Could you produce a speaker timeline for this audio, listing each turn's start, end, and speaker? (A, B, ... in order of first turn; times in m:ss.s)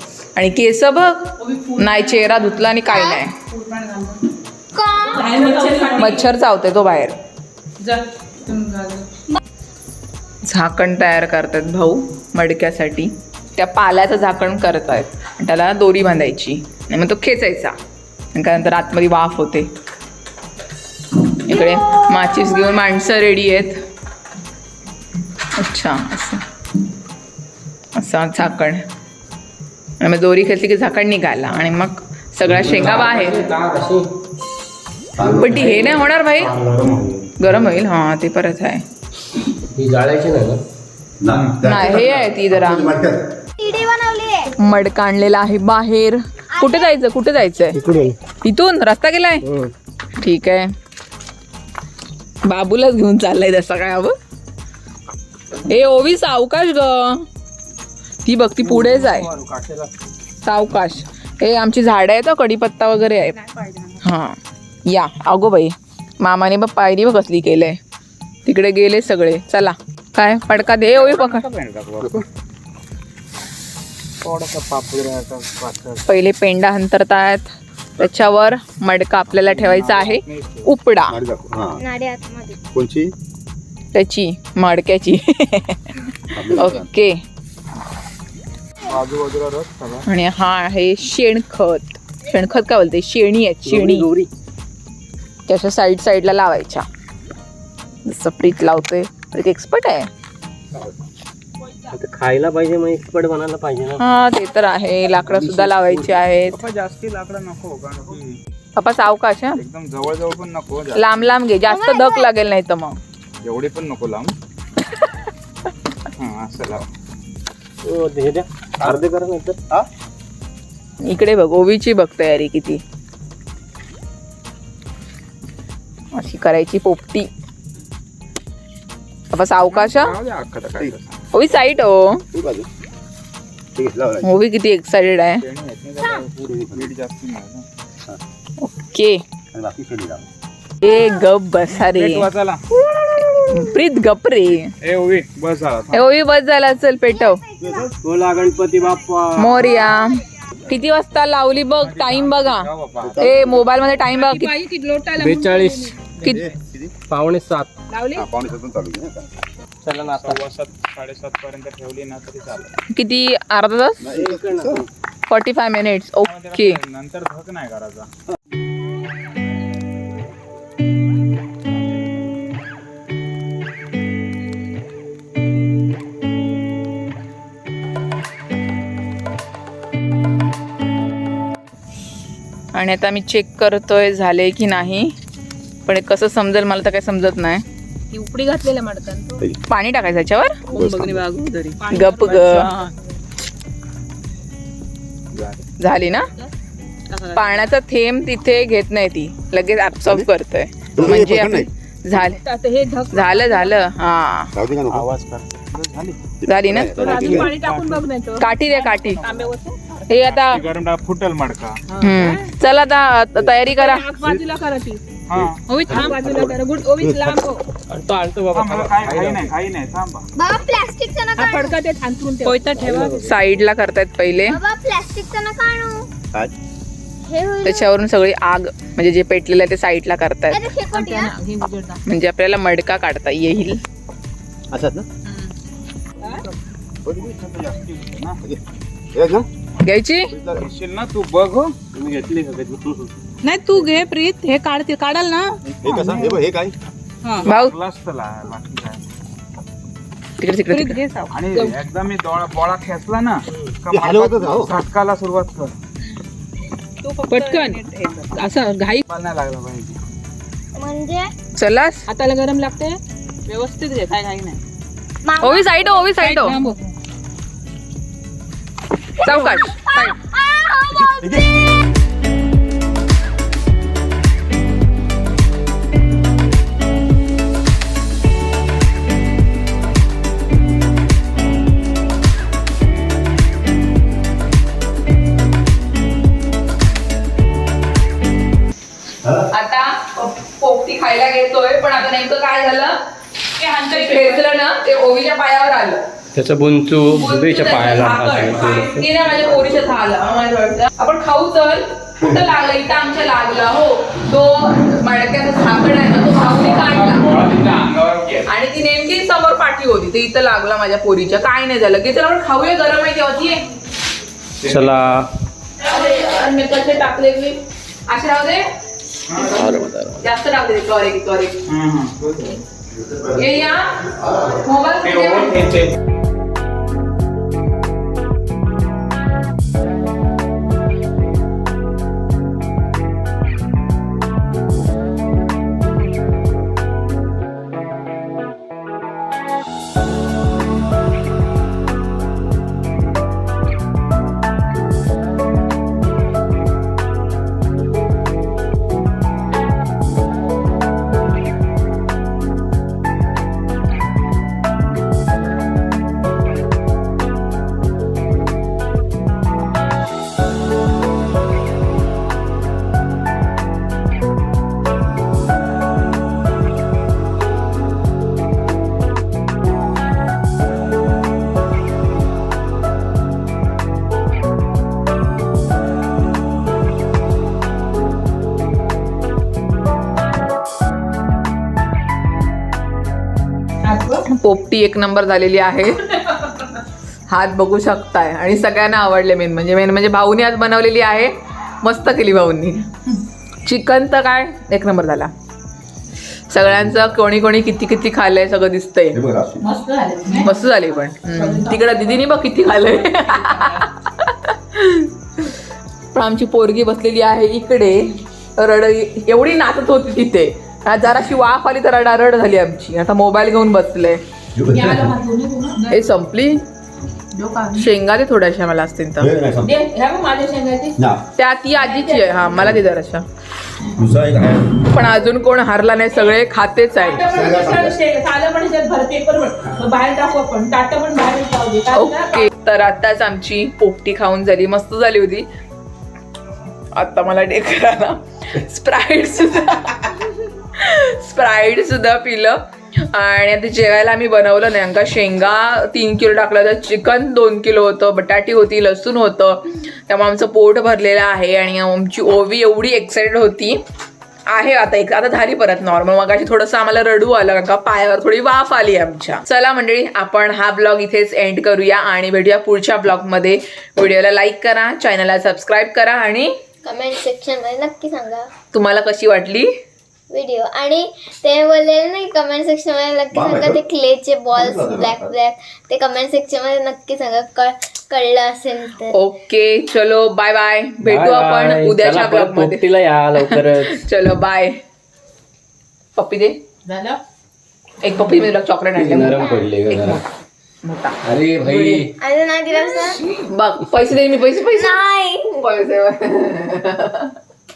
0:00.4-0:03.3 A
0:01.4-0:02.6 B
0:02.9-0:03.2 C
0:03.4-0:04.2 B
0:04.7-0:05.6 C
0:05.0-0:06.3 B
0:05.6-0:07.2 A
0:07.8-0:09.1 B
0:10.4-0:17.8 A
0:18.3-0:19.7 A
0:21.4-0:23.8 A
0:21.6-0:22.0 C
0:25.6-0:26.4 A
0:28.0-0:28.8 A
0:30.0-0:33.4 A
0:32.4-0:34.1 D
0:35.2-0:35.8 E
0:35.2-0:35.9 D
0:35.4-0:36.6 A
0:36.6-0:37.1 F
0:37.4-0:38.8 A
0:39.7-0:40.6 D
0:41.2-0:43.4 E
0:41.6-0:43.0 A
0:43.6-0:44.5 C
0:44.6-0:47.8 A
0:46.6-0:46.9 C
0:47.8-0:48.2 D
0:48.4-0:49.4 A
0:49.4-0:49.7 D
0:50.2-0:50.7 A
0:52.4-0:54.2 A
0:55.7-0:57.3 A
0:58.2-0:59.3 A
0:58.6-0:59.9 D
1:00.4-1:03.4 A
1:03.4-1:04.0 B
1:04.0-1:07.8 A
1:08.5-1:11.4 A
1:10.9-1:12.2 F
1:14.2-1:16.0 F
1:16.1-1:21.2 A
1:19.3-1:20.7 F
1:21.1-1:21.8 E
1:21.8-1:22.6 C
1:22.7-1:23.2 E
1:23.9-1:27.2 A
1:26.3-1:26.9 E
1:28.9-1:30.1 F
1:30.1-1:34.1 A
1:33.6-1:34.3 D
1:35.5-1:36.9 A
1:38.1-1:40.1 A
1:41.9-1:44.0 D
1:44.0-1:46.6 A
1:45.3-1:46.1 D
1:46.5-1:48.4 F
1:48.8-1:49.6 A
1:49.6-1:51.1 F
1:51.0-1:53.0 A
1:51.7-1:52.3 C
1:53.4-1:54.4 F
1:56.2-1:56.9 F
1:57.8-1:59.6 D
2:01.0-2:02.8 A
2:06.1-2:07.3 A
2:09.3-2:10.2 A
2:09.7-2:11.2 F
2:11.3-2:12.2 A
2:12.3-2:12.7 E
2:13.8-2:14.3 E
2:14.2-2:15.4 A
2:15.4-2:17.6 F
2:16.4-2:16.9 E
2:18.6-2:19.2 A
2:19.5-2:20.3 E
2:20.8-2:22.3 A
2:21.8-2:22.6 F
2:23.4-2:24.7 A
2:24.8-2:26.0 F
2:25.9-2:27.4 A
2:27.1-2:27.9 C
2:27.6-2:27.9 E
2:28.0-2:29.6 D
2:29.4-2:32.7 A
2:31.8-2:33.3 F
2:33.0-2:33.7 E
2:33.2-2:34.6 A
2:34.1-2:36.0 B
2:35.2-2:36.0 D
2:36.2-2:36.5 A
2:36.2-2:36.9 E
2:37.1-2:37.7 D
2:37.9-2:38.3 B
2:38.2-2:39.3 E
2:39.8-2:40.4 D
2:40.2-2:42.7 F
2:42.9-2:44.1 A
2:44.0-2:44.9 E
2:44.0-2:44.9 D
2:45.3-2:46.8 A
2:46.2-2:48.1 F
3:02.7-3:05.1 A
3:05.9-3:07.6 A
3:08.1-3:09.4 B
3:09.7-3:10.6 A
3:10.7-3:11.4 E
3:10.7-3:12.9 B
3:11.9-3:12.7 A
3:15.3-3:15.6 F
3:15.8-3:16.3 A
3:17.1-3:17.4 B
3:17.3-3:22.4 A
3:21.0-3:21.7 E
3:22.3-3:23.8 B
3:23.1-3:24.5 A
3:24.6-3:25.1 E
3:24.9-3:26.3 F
3:26.4-3:27.6 E
3:26.5-3:27.4 A
3:27.0-3:28.1 F
3:27.0-3:30.0 B
3:28.4-3:29.2 A
3:29.0-3:31.8 F
3:30.1-3:30.6 A
3:31.9-3:32.5 B
3:32.0-3:34.1 A
3:33.6-3:35.0 B
3:35.3-3:36.0 F
3:35.4-3:37.5 E
3:35.7-3:37.6 B
3:37.9-3:39.5 D
3:38.5-3:40.3 F
3:40.4-3:41.8 C
3:41.4-3:43.2 B
3:42.8-3:43.3 D
3:43.2-3:44.6 A
3:44.5-3:46.1 C
3:47.2-3:47.9 C
3:47.6-3:50.6 A
3:50.5-3:51.4 C
3:50.9-3:52.0 B
3:52.1-3:53.8 A
3:54.7-3:55.1 E
3:57.0-3:57.8 E
3:57.2-3:58.4 F
3:59.1-3:59.5 E
3:59.8-4:00.3 A
4:00.3-4:00.7 E
4:00.6-4:01.7 F
4:01.9-4:03.1 D
4:03.4-4:06.4 B
4:05.6-4:06.8 E
4:07.3-4:09.0 F
4:07.4-4:07.8 A
4:10.4-4:11.0 A
4:10.7-4:11.8 B
4:11.3-4:15.7 F
4:13.9-4:14.8 E
4:17.0-4:19.0 B
4:17.3-4:17.8 A
4:18.3-4:18.9 A
4:19.0-4:20.0 F
4:20.8-4:21.3 C
4:21.6-4:22.1 A
4:22.1-4:24.6 B
4:25.2-4:26.2 C
4:25.4-4:26.6 A
4:26.2-4:26.9 B
4:29.2-4:30.2 A
4:29.2-4:31.7 C
4:31.1-4:31.4 E
4:49.5-4:53.0 A
4:53.6-4:54.4 B
4:53.7-4:56.0 A
4:56.4-4:59.1 D
4:57.1-5:07.4 A
5:06.6-5:08.5 F
5:08.4-5:13.6 A
5:14.6-5:15.0 F
5:14.6-5:15.3 D
5:15.8-5:18.7 A
5:19.3-5:20.0 F
5:19.3-5:21.6 A
5:21.7-5:22.6 F
5:23.4-5:25.8 A
5:24.2-5:24.6 E
5:25.0-5:25.9 F
6:23.8-6:24.2 B
6:24.3-6:26.4 A
6:27.3-6:32.9 A
6:33.6-6:35.3 A
6:36.5-6:39.2 A
6:39.1-6:39.6 E
6:39.6-6:40.5 B
6:40.3-6:45.5 A
6:41.3-6:41.9 B
6:43.5-6:43.8 B
6:46.1-6:54.2 A
6:54.6-6:55.2 E
6:54.7-6:56.0 B
6:55.9-6:56.6 A
6:57.4-6:57.9 B
6:57.7-6:59.3 A
6:59.2-6:59.8 E
6:59.6-7:01.0 B
7:01.0-7:01.2 E
7:01.4-7:03.2 A
7:01.8-7:02.4 B
7:03.9-7:04.8 E
7:04.8-7:07.3 A
7:07.0-7:12.5 B
7:07.2-7:08.0 E
7:11.9-7:15.5 A
7:17.0-7:33.8 A
7:34.5-7:46.5 A
7:46.8-7:48.5 C
7:48.7-7:49.7 A
7:50.3-7:59.2 C
7:53.3-7:53.8 E
7:54.6-7:55.4 E
7:59.1-8:04.8 A
8:01.0-8:04.0 D
8:06.2-8:06.6 A
8:06.9-8:07.2 B
8:08.0-8:10.2 A
8:09.0-8:10.2 D
8:09.4-8:09.7 C
8:10.8-8:12.0 A
8:11.2-8:12.1 D
8:12.2-8:13.2 C
8:13.3-8:17.4 A
8:14.7-8:15.5 C